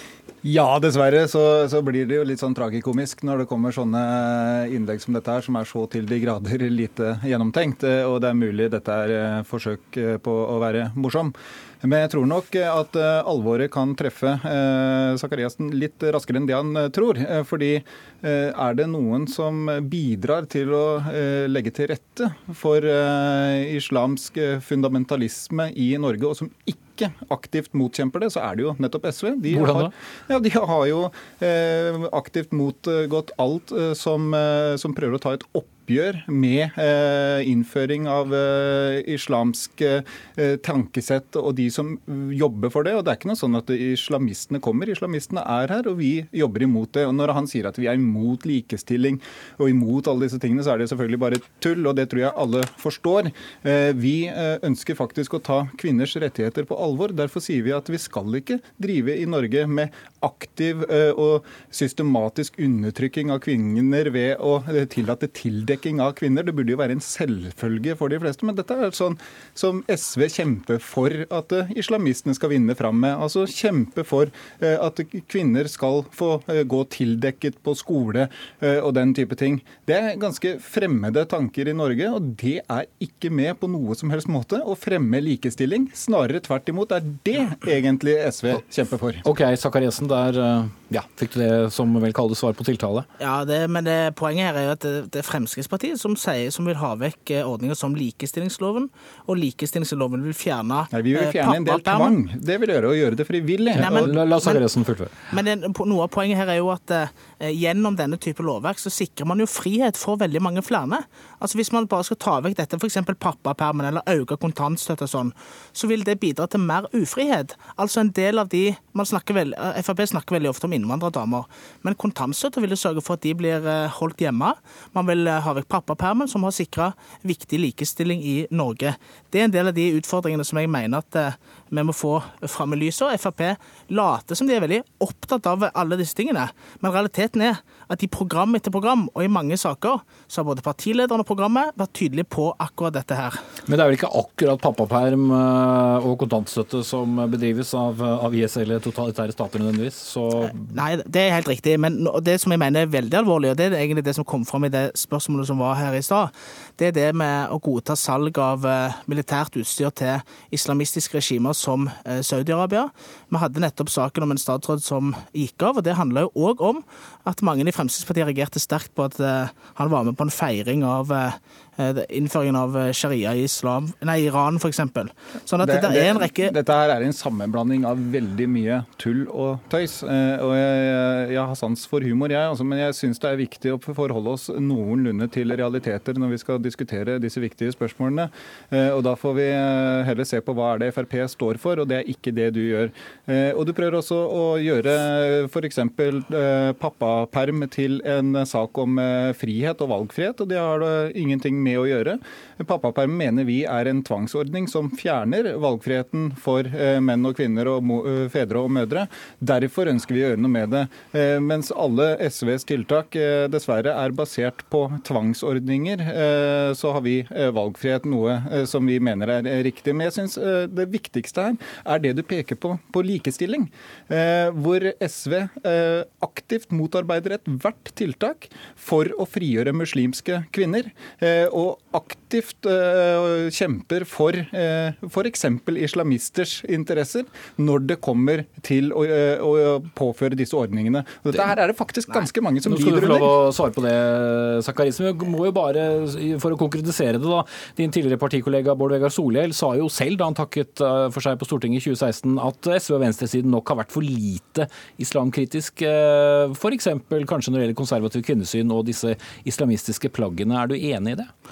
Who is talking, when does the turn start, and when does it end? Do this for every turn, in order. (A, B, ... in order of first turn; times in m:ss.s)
0:00.4-1:29.2 A
0:29.5-0:29.9 B
1:29.2-1:33.1 B
1:33.2-1:42.2 C
1:40.9-1:44.1 A
1:43.7-1:44.6 C
1:43.7-1:45.1 B
1:45.3-2:23.4 C
2:23.7-2:30.8 B
2:30.6-2:56.5 C
2:55.6-4:03.3 A
4:02.7-4:21.3 B